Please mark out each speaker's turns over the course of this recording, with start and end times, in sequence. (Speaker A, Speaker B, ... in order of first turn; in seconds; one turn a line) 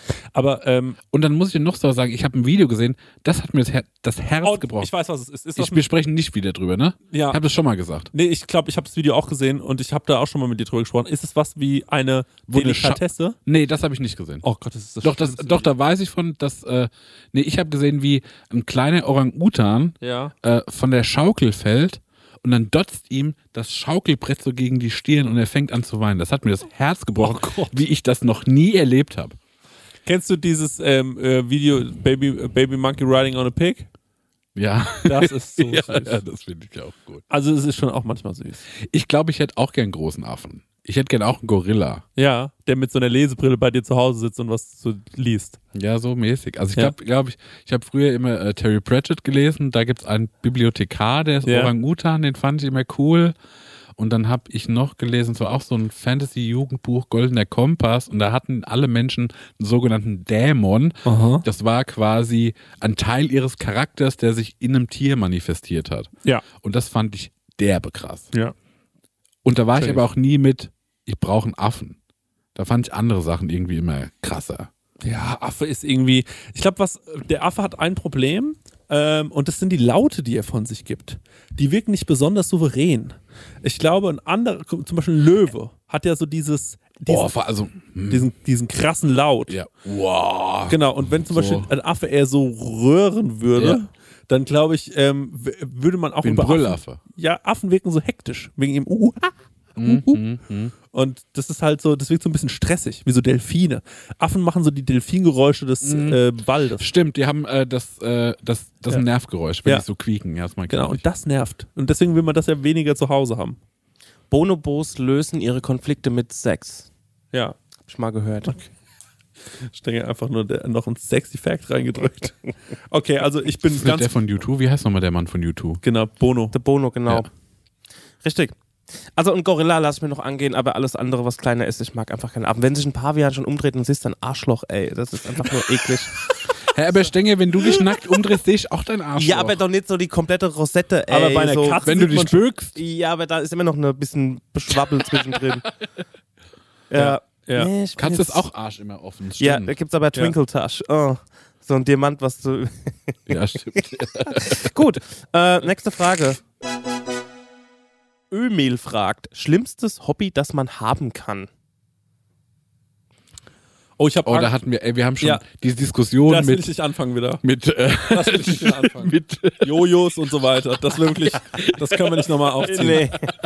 Speaker A: 0.3-1.0
Speaker B: 1.1-4.9
Speaker A: 4.4-5.8
Speaker B: 5.5-8.1
Speaker A: 7.1-7.4
Speaker A: 8.1-13.4
Speaker B: 12.5-14.4
Speaker A: 14.4-15.7
Speaker B: 15.0-29.4
Speaker A: 20.0-20.3
Speaker A: 27.2-27.8
Speaker A: 30.1-33.9
Speaker B: 34.5-37.2
Speaker A: 35.0-36.2
Speaker A: 37.3-38.6
Speaker B: 38.8-42.0
Speaker A: 42.1-45.6
Speaker B: 45.7-53.4
Speaker A: 51.4-51.7
Speaker B: 54.0-68.3
Speaker A: 61.0-61.4
Speaker B: 69.4-72.0
Speaker A: 69.8-70.0
Speaker B: 72.5-74.7
Speaker A: 75.0-87.3
Speaker B: 87.0-88.3
Speaker A: 88.1-89.5
Speaker B: 89.5-91.7
Speaker A: 90.7-100.2
Speaker B: 93.5-93.8
Speaker B: 96.2-97.0
Speaker B: 99.8-100.7
Speaker A: 100.9-106.9
Speaker B: 105.8-106.2
Speaker B: 106.8-111.0
Speaker A: 110.7-113.6
Speaker C: 114.3-116.9
Speaker C: 117.8-118.6
Speaker A: 119.6-122.4
Speaker A: 122.9-124.1
Speaker B: 123.7-125.8
Speaker A: 125.8-126.5
Speaker C: 126.5-127.3
Speaker C: 128.2-128.5
Speaker C: 129.1-136.3
Speaker B: 136.6-139.6
Speaker C: 139.2-141.8
Speaker A: 141.1-142.4
Speaker B: 141.8-142.8
Speaker C: 142.8-145.7
Speaker C: 146.9-148.4
Speaker A: 146.9-147.7
Speaker B: 148.0-149.7
Speaker C: 149.4-156.4
Speaker B: 153.3-154.7
Speaker C: 158.3-161.5
Speaker A: 164.0-164.5
Speaker B: 164.2-166.7
Speaker A: 165.2-165.4
Speaker A: 166.3-167.4
Speaker B: 167.4-169.9
Speaker A: 168.1-173.1
Speaker C: 172.6-173.3